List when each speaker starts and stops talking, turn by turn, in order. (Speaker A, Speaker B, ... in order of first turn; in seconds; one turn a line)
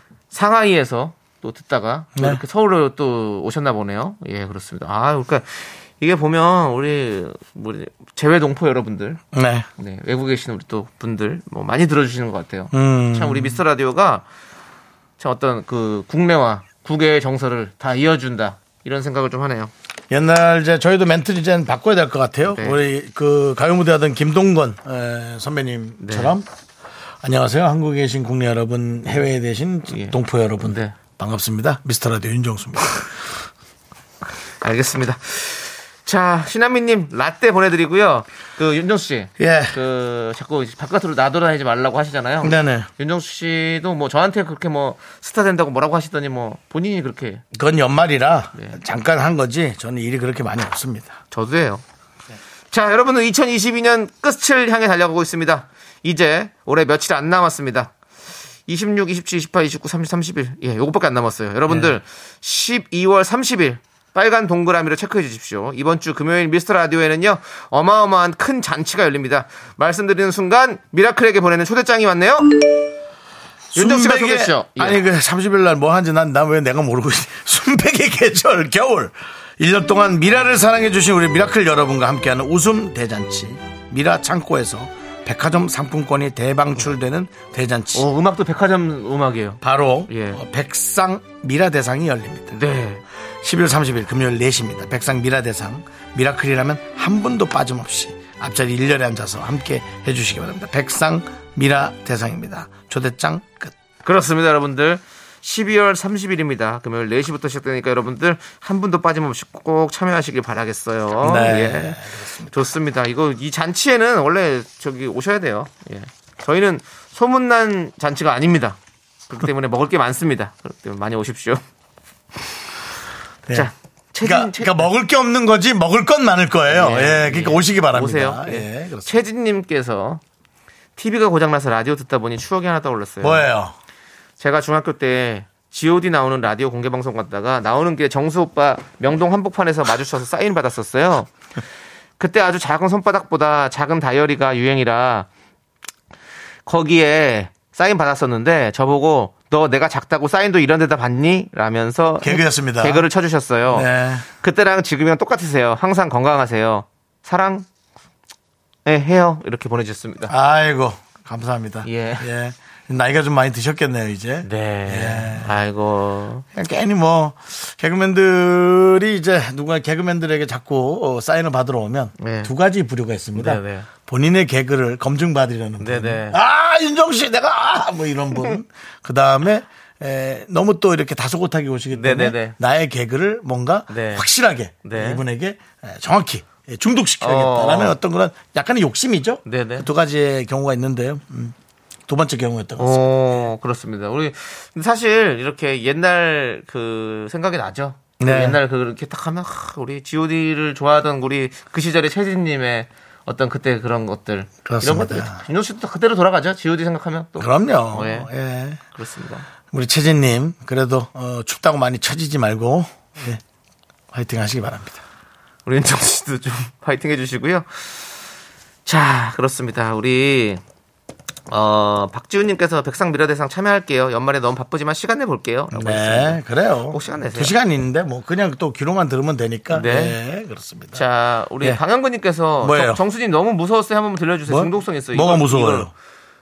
Speaker A: 0.3-9.2
Speaker B: 2.1-2.4
Speaker B: 9.3-9.7
Speaker A: 9.8-14.2
Speaker B: 12.7-13.6
Speaker A: 15.2-19.7
Speaker B: 20.1-26.5
Speaker A: 22.5-22.8
Speaker A: 26.0-26.3
Speaker B: 27.2-33.2
Speaker A: 29.9-30.9
Speaker A: 34.6-47.4
Speaker B: 39.4-39.8
Speaker B: 42.4-42.9
Speaker B: 47.5-51.2
Speaker A: 51.3-51.8
Speaker A: 52.7-57.9
Speaker A: 58.7-72.6
Speaker B: 61.7-62.0
Speaker B: 73.7-88.0
Speaker A: 73.7-75.0
Speaker A: 87.9-90.4
Speaker B: 89.6-92.6
Speaker A: 92.5-93.0
Speaker B: 93.4-103.7
Speaker A: 104.0-118.8
Speaker B: 111.2-112.5
Speaker A: 119.3-121.6
Speaker A: 123.5-124.9
Speaker B: 124.2-129.1
Speaker A: 126.7-130.2
Speaker A: 131.0-133.5
Speaker B: 133.2-133.7
Speaker A: 134.4-141.3
Speaker A: 142.2-145.3
Speaker A: 146.7-157.7
Speaker B: 152.2-153.1
Speaker B: 153.7-154.3
Speaker A: 158.8-160.3
Speaker B: 160.3-165.5
Speaker A: 161.8-162.3
Speaker A: 164.4-166.4
Speaker B: 166.5-191.5
Speaker A: 172.2-172.5
Speaker A: 173.3-173.9
Speaker A: 175.8-176.4
Speaker A: 181.9-182.5
Speaker A: 183.9-184.2
Speaker A: 184.8-185.2
Speaker A: 187.2-187.9
Speaker A: 189.4-189.9
Speaker B: 192.1-193.1
Speaker A: 192.8-208.3
Speaker B: 198.2-198.6
Speaker B: 204.6-205.4
Speaker B: 207.4-208.8
Speaker A: 208.9-209.5
Speaker B: 209.7-213.4
Speaker B: 214.1-215.0
Speaker A: 215.7-218.0
Speaker A: 218.8-220.6
Speaker A: 221.5-227.5
Speaker B: 225.7-231.0
Speaker A: 229.7-230.2
Speaker A: 230.9-235.9
Speaker B: 232.6-233.0
Speaker B: 234.5-235.9